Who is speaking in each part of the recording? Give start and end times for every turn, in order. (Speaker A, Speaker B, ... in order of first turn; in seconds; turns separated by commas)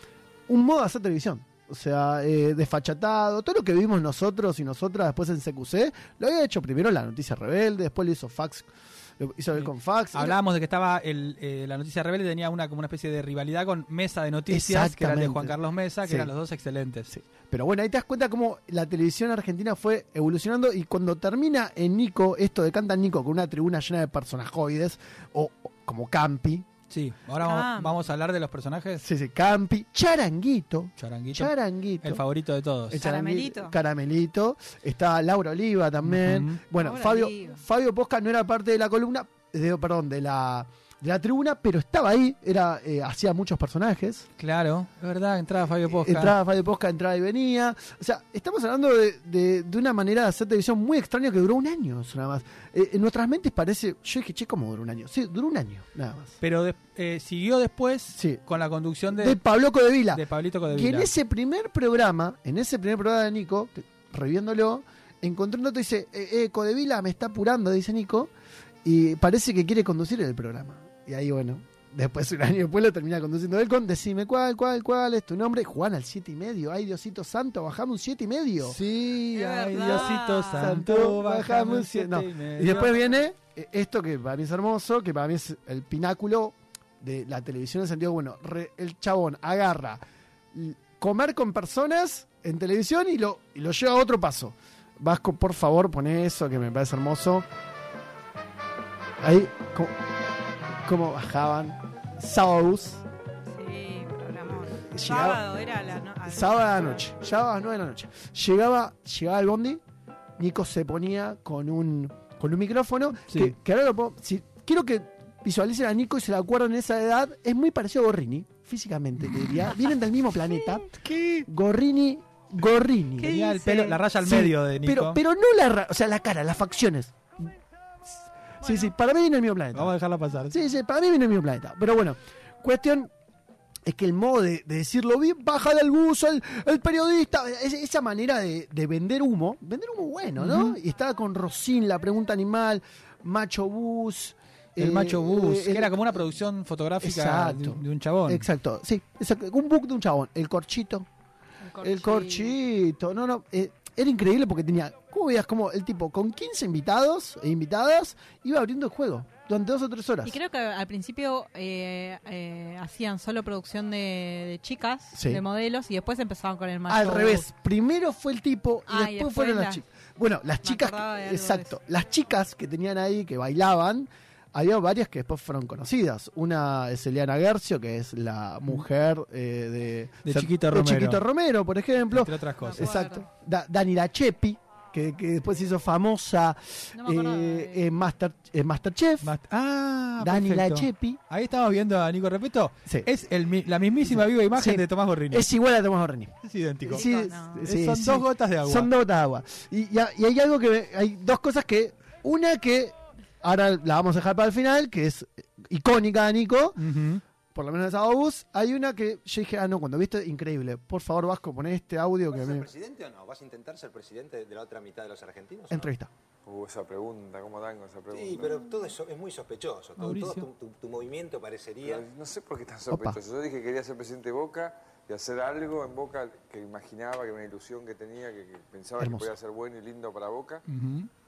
Speaker A: 0.5-10.4, Speaker B: 9.6-17.1, Speaker A: 14.5-16.3, Speaker A: 17.1-26.6, Speaker B: 26.9-29.0, Speaker C: 27.4-28.0, Speaker A: 29.0-32.2, Speaker B: 31.0-33.0, Speaker A: 32.9-44.2, Speaker C: 33.0-33.7, Speaker B: 36.0-36.6, Speaker C: 36.8-37.6, Speaker B: 44.4-46.3, Speaker A: 45.9-56.4, Speaker B: 56.4-59.4, Speaker A: 58.1-58.4, Speaker A: 59.1-68.3, Speaker B: 60.1-61.1, Speaker A: 68.8-90.0, Speaker B: 78.6-83.0, Speaker C: 79.3-80.8, Speaker A: 90.5-97.4, Speaker A: 99.2-99.9, Speaker A: 100.8-103.0, Speaker C: 103.5-107.0, Speaker A: 104.8-105.4, Speaker A: 106.2-109.8, Speaker A: 110.4-120.9, Speaker B: 113.3-113.5, Speaker B: 119.2-119.7, Speaker B: 120.9-121.5, Speaker A: 121.5-127.5, Speaker B: 123.2-125.2, Speaker C: 123.2-123.8, Speaker A: 128.6-129.9, Speaker B: 129.7-130.6, Speaker A: 130.5-133.1, Speaker A: 133.9-146.2, Speaker B: 140.4-140.8, Speaker B: 144.8-148.4, Speaker A: 147.0-151.1, Speaker C: 151.6-152.6, Speaker A: 151.8-160.4, Speaker C: 160.2-167.5, Speaker A: 165.1-165.4, Speaker A: 166.9-189.3, Speaker C: 168.9-169.8, Speaker C: 170.6-171.8, Speaker B: 180.2-181.2, Speaker B: 182.1-182.9, Speaker C: 182.6-183.3, Speaker C: 186.9-187.8, Speaker B: 189.2-195.5, Speaker A: 190.2-191.2, Speaker A: 194.1-206.8, Speaker B: 196.4-198.9, Speaker C: 196.9-197.7, Speaker B: 206.8-207.2, Speaker A: 207.5-212.7, Speaker D: 212.3-215.9, Speaker A: 215.7-216.1, Speaker E: 216.4-218.7, Speaker D: 218.1-222.0, Speaker B: 220.0-220.5, Speaker E: 221.8-230.6, Speaker A: 222.9-223.2, Speaker A: 229.0-229.4, Speaker B: 230.7-231.1